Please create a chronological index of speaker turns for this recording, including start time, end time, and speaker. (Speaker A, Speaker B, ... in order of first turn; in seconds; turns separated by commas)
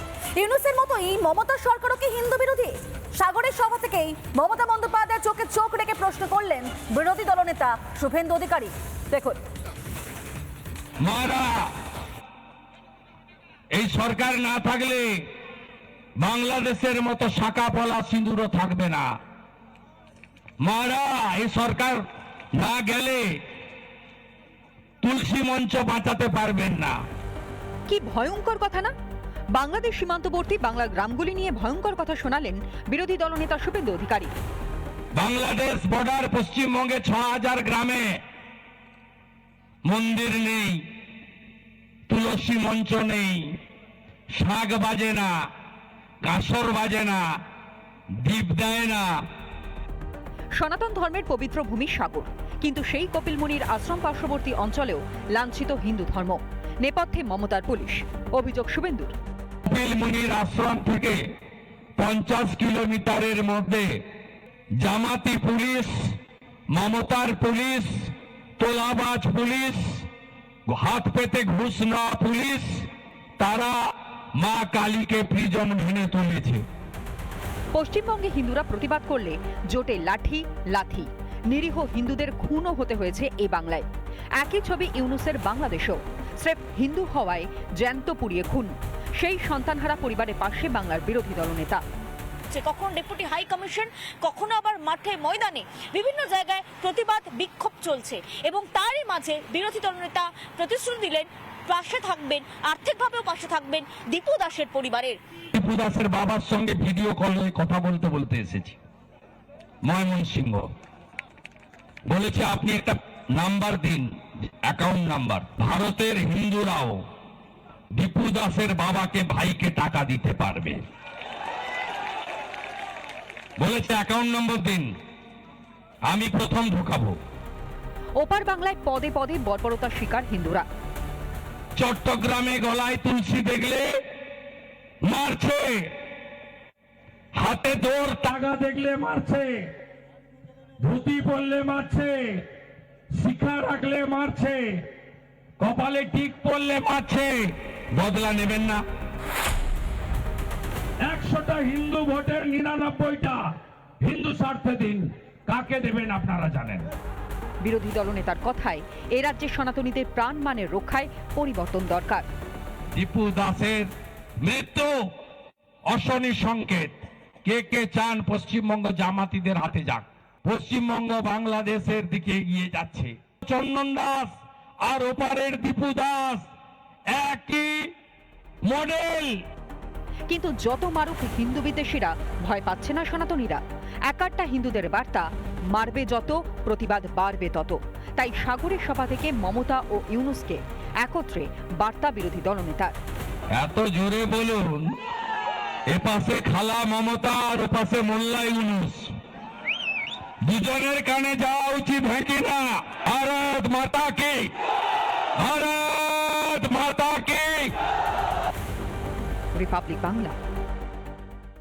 Speaker A: 0.4-9.3, Speaker B: 11.0-11.7, Speaker B: 13.7-15.2, Speaker B: 16.2-19.1, Speaker B: 20.6-22.0, Speaker B: 22.6-23.3, Speaker B: 25.0-26.9, Speaker C: 27.9-28.9, Speaker C: 29.5-34.3, Speaker B: 35.1-38.2, Speaker B: 39.9-40.9, Speaker B: 42.1-43.6, Speaker B: 44.3-45.3, Speaker B: 46.2-47.2, Speaker B: 48.2-49.1, Speaker C: 50.6-59.1, Speaker B: 59.6-61.2, Speaker B: 62.0-63.9, Speaker B: 64.8-66.1, Speaker B: 66.7-70.1, Speaker B: 70.7-72.9, Speaker B: 73.4-73.8, Speaker B: 74.3-76.6, Speaker C: 77.7-83.9, Speaker C: 84.4-91.8, Speaker D: 92.5-105.2, Speaker B: 105.5-108.8, Speaker B: 109.8-110.7, Speaker B: 112.1-114.1, Speaker B: 114.7-117.0, Speaker B: 117.9-120.8, Speaker B: 123.6-124.9, Speaker B: 126.1-127.2, Speaker C: 128.2-130.6, Speaker B: 131.8-133.9, Speaker B: 135.0-135.9, Speaker B: 137.3-139.7, Speaker B: 140.8-142.4, Speaker B: 143.1-144.8, Speaker B: 145.6-148.8, Speaker B: 151.0-153.4, Speaker B: 154.0-156.9, Speaker C: 157.6-162.2, Speaker B: 162.9-163.9, Speaker B: 164.4-164.9, Speaker B: 165.9-176.5, Speaker B: 177.1-177.9, Speaker B: 178.6-179.4, Speaker C: 180.3-192.9, Speaker B: 193.5-194.9, Speaker B: 195.9-199.1, Speaker B: 200.4-204.5, Speaker B: 205.4-207.7, Speaker C: 209.6-210.3